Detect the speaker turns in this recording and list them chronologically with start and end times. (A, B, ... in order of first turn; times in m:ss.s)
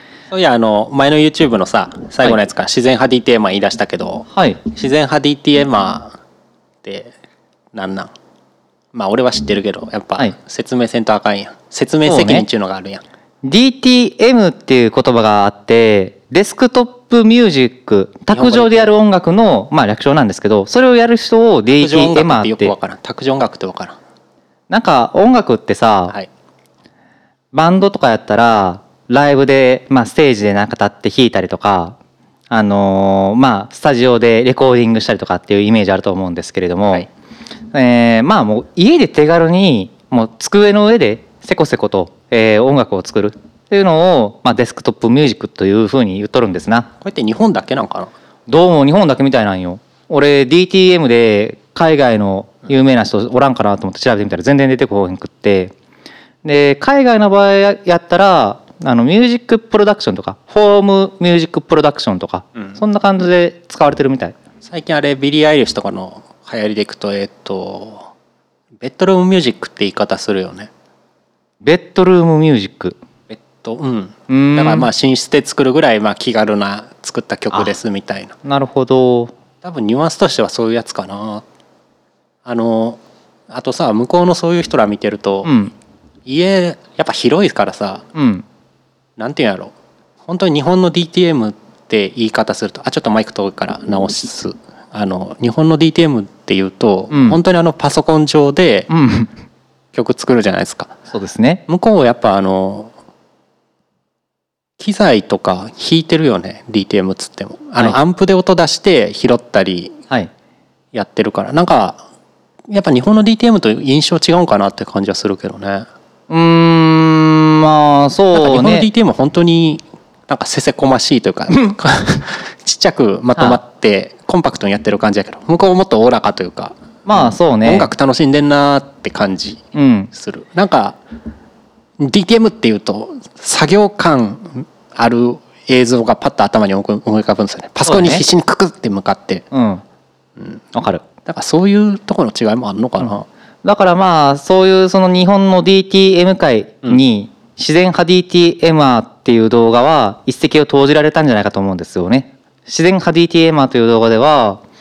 0:00.3-0:06.2 A
0:04.3-0:04.6 B
0:06.8-0:07.1 A
0:07.7-0:08.1 A
0:08.9-0:13.0 A
0:12.0-0:12.4 B
0:13.4-0:22.7 B
0:18.3-0:18.9 A
0:21.7-0:24.0 A
0:24.7-0:26.1 B
0:27.5-0:32.0 B
0:32.5-0:37.1 B
0:37.7-0:46.9 B
0:47.0-0:48.1 A
0:48.5-0:55.7 B
0:56.4-1:04.3 B
1:04.6-1:08.1 A
1:08.8-1:10.7 A
1:11.6-1:13.0 B
1:13.3-1:18.3 A
1:14.3-1:14.9 B
1:18.4-1:19.3 B
1:19.6-1:21.4 A
1:22.4-1:25.5 A
1:25.4-1:25.7 B
1:26.2-1:28.0 A
1:28.1-1:28.4 B
1:29.2-1:29.7 A
1:30.3-1:38.9 A
1:37.1-1:37.4 B
1:38.9-1:39.3 B
1:39.9-1:41.0 A
1:41.1-1:41.6 B
1:41.7-1:42.9 A
1:44.8-1:50.0 A
1:50.9-1:52.0 A
1:52.7-1:55.9 A
1:56.3-1:58.9 B
1:58.3-2:11.0 A
2:07.0-2:07.9 B
2:09.7-2:10.1 B
2:12.0-2:19.4 A
2:17.8-2:18.2 B
2:19.5-2:19.8 B
2:20.7-2:21.0 B
2:21.2-2:23.3 A
2:23.6-2:34.6 B